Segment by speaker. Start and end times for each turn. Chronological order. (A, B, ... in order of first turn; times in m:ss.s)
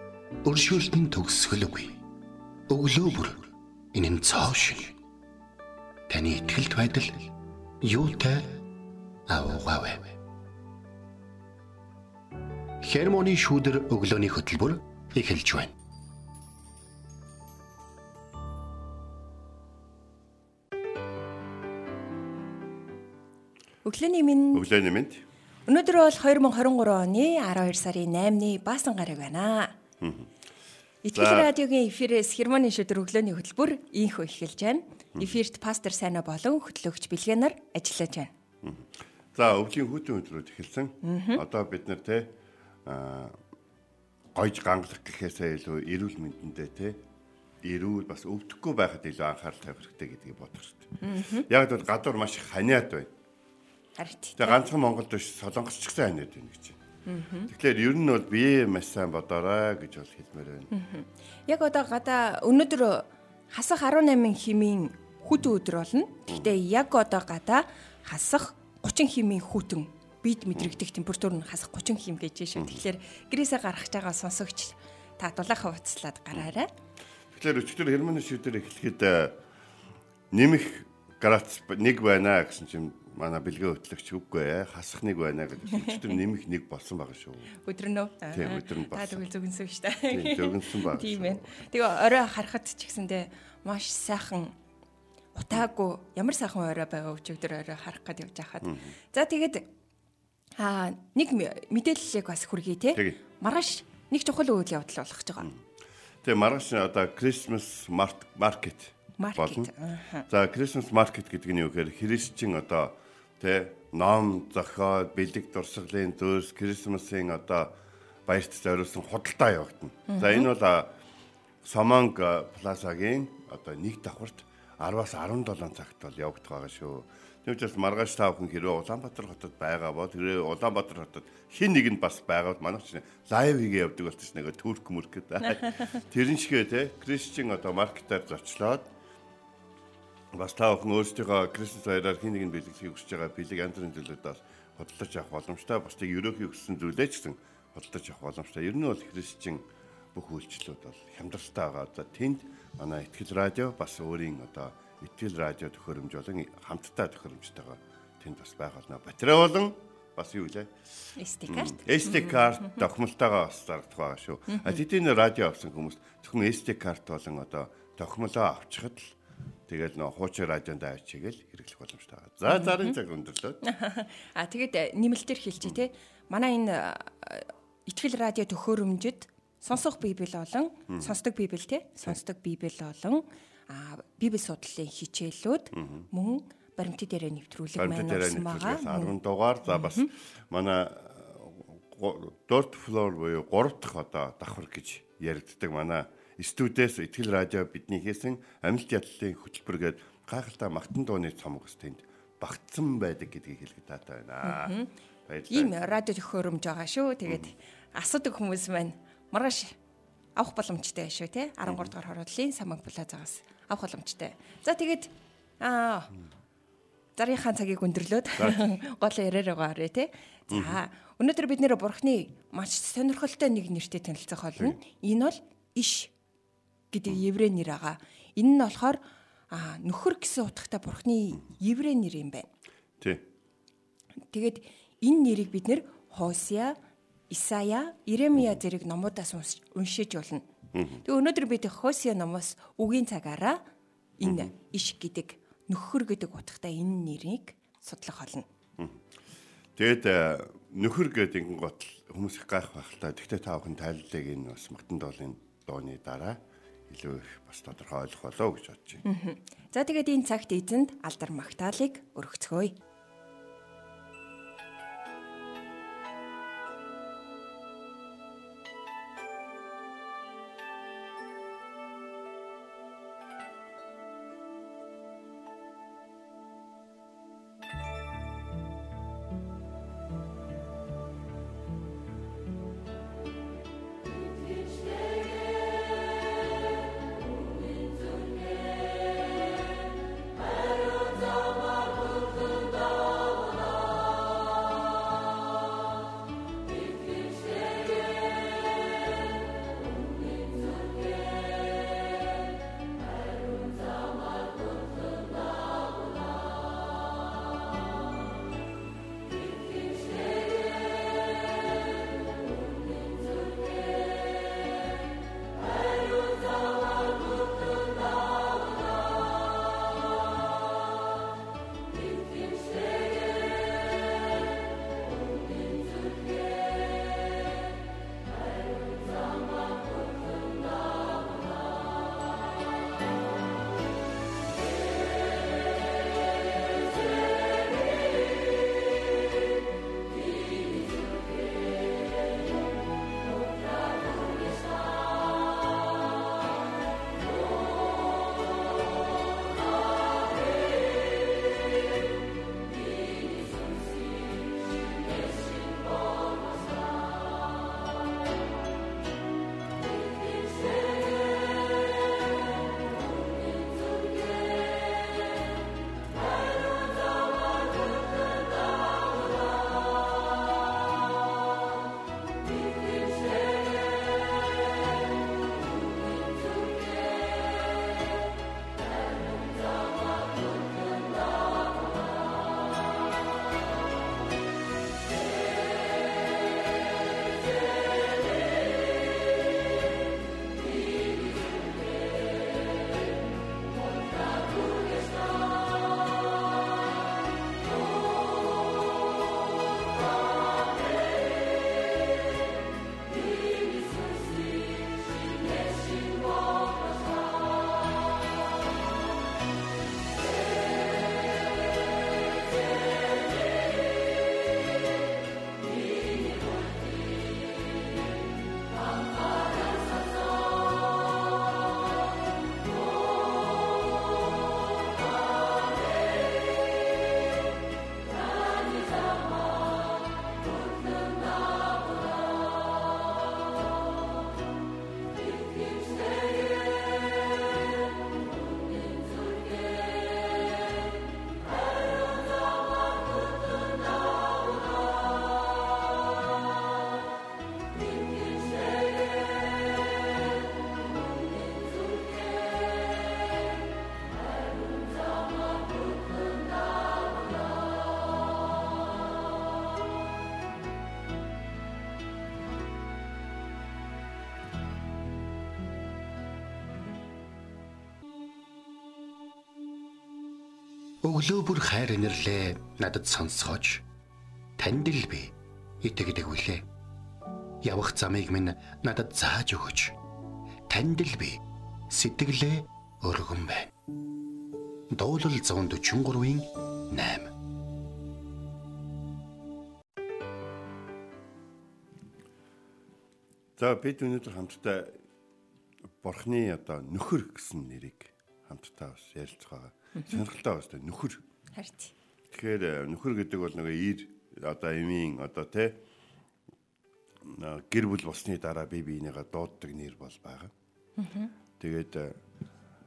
0:00.4-0:02.0 A
0:02.7-0:05.0 A
0:06.1-0:08.6 A
0:09.3-0:10.2 A
0:12.8-0:15.7 A
0:23.8-0:24.6 B
0:24.5-0:25.2 C
0:25.7-0:29.7 B
0:30.0-0:30.3 C
0:31.0-0:38.3 B
0:31.1-0:31.5 C
0:38.6-0:43.4 C
0:41.0-0:41.4 B
0:44.3-0:47.0 C
0:47.6-0:53.1 C
0:51.0-0:51.5 B
0:54.0-0:54.6 B
0:54.4-0:56.8 C
0:57.1-0:57.5 B
0:57.5-1:00.7 C
1:00.7-1:16.7 B
1:12.6-1:12.8 C
1:17.3-1:19.4 C
1:20.3-1:27.6 C
1:25.7-1:26.0 B
1:27.6-1:34.5 B
1:28.3-1:29.2 C
1:30.1-1:31.6 C
1:35.3-1:39.7 B
1:38.6-1:38.9 C
1:40.6-1:45.5 B
1:46.2-1:49.7 C
1:49.2-1:50.3 B
1:50.3-2:01.0 C
2:00.1-2:00.5 B
2:01.6-2:18.9 C
2:20.3-2:40.7 C
2:41.2-2:42.8 B
2:41.5-2:49.1 C
2:44.5-2:44.8 B
2:49.7-2:53.6 C
2:52.5-2:53.0 B
2:53.6-3:09.2 B
3:00.9-3:01.2 C
3:05.7-3:06.1 C
3:07.8-3:26.0 C
3:09.7-3:10.1 B
3:24.4-3:24.9 B
3:25.5-3:29.7 B
3:27.3-3:27.5 C
3:30.4-3:35.1 B
3:31.6-3:31.9 C
3:35.6-3:36.1 B
3:37.2-3:46.1 B
3:38.4-3:38.6 C
3:40.5-3:40.8 C
3:46.9-3:52.5 B
3:54.3-3:56.8 B
3:57.3-4:00.4 B
4:00.7-4:01.0 C
4:01.0-4:03.6 B
4:04.2-4:08.4 B
4:04.2-4:04.5 C
4:09.8-4:19.0 C
4:19.0-4:22.7 B
7:51.0-7:53.8 A
7:54.6-7:56.6 A
7:57.6-8:00.0 A
8:00.7-8:03.7 A
8:04.9-8:07.3 A
8:13.6-8:15.0 C
8:16.0-8:21.2 C
8:21.5-8:21.9 B
8:22.3-8:25.8 C
8:27.2-8:30.5 C
8:31.0-8:31.3 B
8:31.6-8:32.1 C